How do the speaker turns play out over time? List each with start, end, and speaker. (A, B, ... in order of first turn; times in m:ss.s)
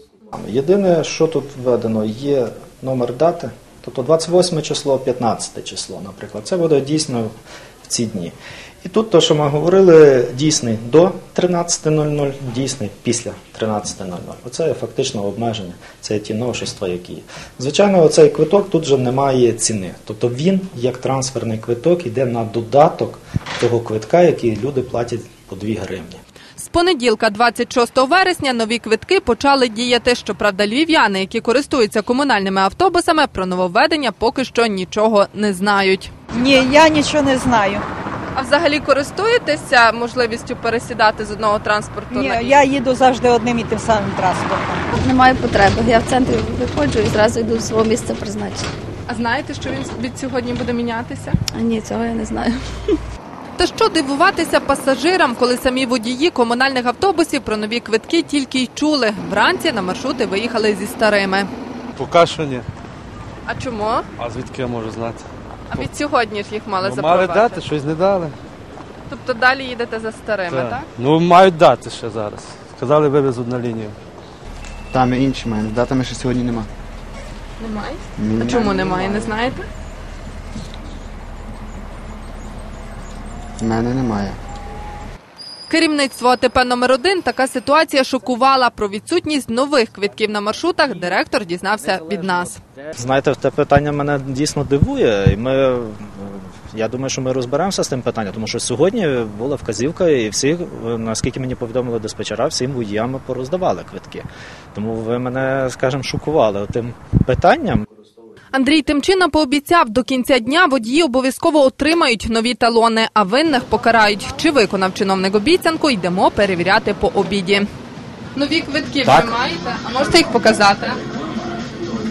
0:00.3-0:07.3 A
0:07.8-0:26.2 A
0:26.6-0:36.1 B
0:36.3-0:37.8 C
0:38.3-0:42.6 B
0:42.1-0:44.8 C
0:44.9-0:48.6 D
0:49.1-0:51.4 B
0:51.5-0:52.6 D
0:53.6-1:01.5 B
1:02.0-1:02.7 E
1:03.5-1:04.0 B
1:04.2-1:05.2 E
1:05.7-1:07.6 B
1:06.8-1:08.3 E
1:09.1-1:10.9 B
1:10.5-1:13.9 E
1:14.9-1:16.7 F
1:17.6-1:19.6 B
1:18.2-1:19.3 F
1:23.6-1:24.4 F
1:25.7-1:32.6 B
1:32.9-1:47.8 A
1:48.5-1:57.6 B
1:58.4-2:01.0 B